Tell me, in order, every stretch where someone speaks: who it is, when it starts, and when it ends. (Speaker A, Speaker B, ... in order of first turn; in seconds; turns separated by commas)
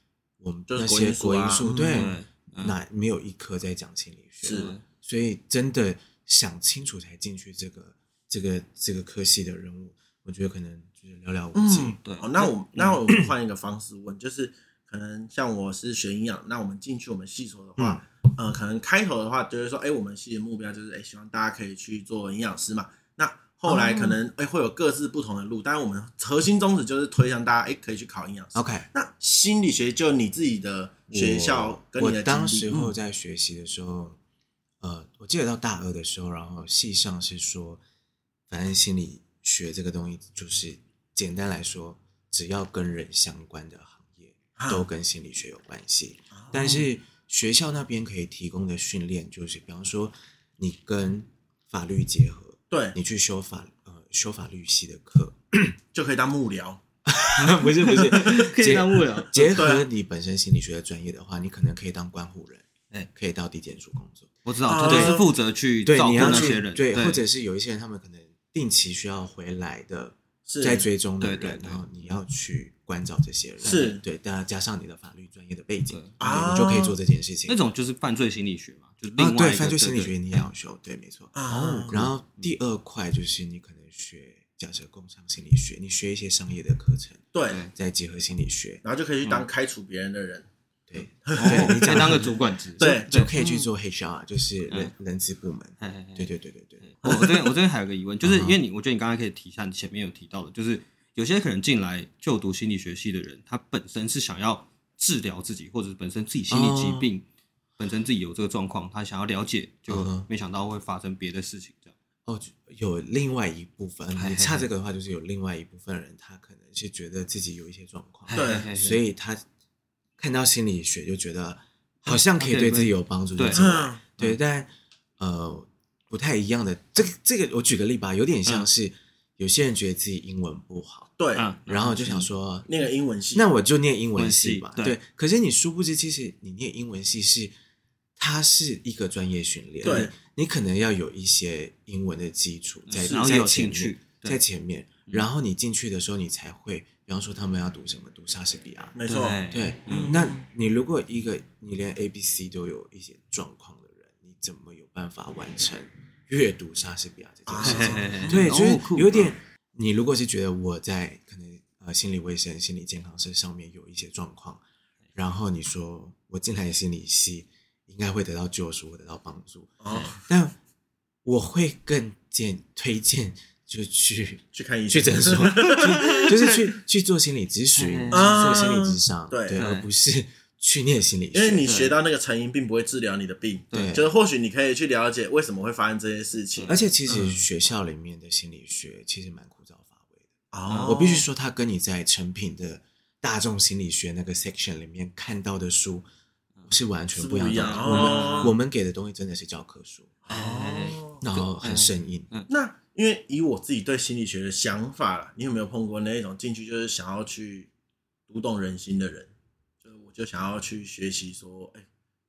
Speaker A: 0.4-12.0, Speaker B: 0.7-2.1, Speaker C: 1.9-2.8, Speaker B: 4.4-4.7, Speaker C: 4.5-4.8, Speaker B: 11.5-32.9, Speaker C: 12.0-13.0, Speaker A: 17.8-18.0, Speaker A: 23.7-24.1, Speaker A: 28.5-28.9, Speaker A: 31.1-34.2, Speaker A: 34.8-37.8, Speaker A: 38.5-55.8, Speaker B: 44.6-44.8, Speaker B: 46.3-46.9, Speaker B: 52.7-53.0, Speaker B: 55.9-56.8, Speaker A: 57.0-65.2, Speaker C: 57.4-59.5, Speaker B: 59.5-59.9, Speaker C: 64.4-67.2, Speaker B: 64.7-65.3, Speaker A: 65.8-77.6, Speaker B: 66.2-66.6, Speaker B: 70.5-70.9, Speaker C: 71.2-71.8, Speaker C: 73.6-73.9, Speaker B: 73.6-74.0, Speaker C: 75.9-76.2, Speaker B: 76.2-77.0, Speaker C: 77.5-80.1, Speaker A: 79.2-81.3, Speaker B: 81.3-82.0, Speaker C: 81.5-82.5, Speaker A: 81.9-88.8, Speaker B: 87.3-87.6, Speaker B: 88.8-90.5, Speaker A: 90.9-97.1, Speaker B: 91.3-92.2, Speaker C: 91.4-93.3, Speaker B: 92.8-93.7, Speaker C: 95.8-96.3, Speaker C: 96.8-107.2, Speaker A: 98.2-98.6, Speaker A: 106.5-107.1, Speaker C: 107.8-111.9, Speaker A: 109.9-110.3, Speaker A: 112.2-119.4, Speaker C: 114.1-114.7, Speaker C: 118.3-119.0, Speaker B: 118.3-118.7, Speaker A: 120.2-131.1, Speaker C: 122.1-123.6, Speaker B: 123.5-124.0, Speaker B: 131.2-131.4, Speaker C: 131.3-132.3, Speaker A: 131.7-132.7, Speaker B: 132.7-133.5, Speaker A: 133.3-137.5, Speaker C: 134.2-135.0, Speaker A: 138.2-164.6, Speaker B: 139.8-140.1, Speaker C: 142.8-144.4, Speaker B: 143.0-143.3, Speaker B: 148.9-150.4, Speaker C: 149.1-150.2, Speaker B: 157.5-158.4, Speaker C: 157.6-159.3, Speaker A: 165.1-170.6, Speaker B: 169.8-170.2, Speaker C: 169.9-170.2, Speaker A: 171.2-181.7, Speaker B: 174.5-176.6, Speaker C: 175.8-176.3, Speaker C: 177.7-178.8, Speaker B: 178.1-179.6, Speaker C: 179.6-179.9, Speaker B: 181.3-187.4, Speaker C: 181.6-182.0, Speaker C: 183.7-184.0, Speaker A: 183.7-184.1, Speaker C: 186.6-186.9, Speaker A: 186.7-190.3, Speaker B: 190.5-191.3, Speaker C: 190.7-191.0, Speaker A: 190.9-196.0, Speaker A: 196.7-200.1, Speaker B: 197.1-198.5, Speaker C: 197.5-198.5, Speaker B: 200.2-201.2, Speaker C: 200.3-202.5, Speaker A: 201.2-202.3, Speaker B: 202.5-207.7, Speaker B: 208.3-209.3, Speaker B: 209.8-211.8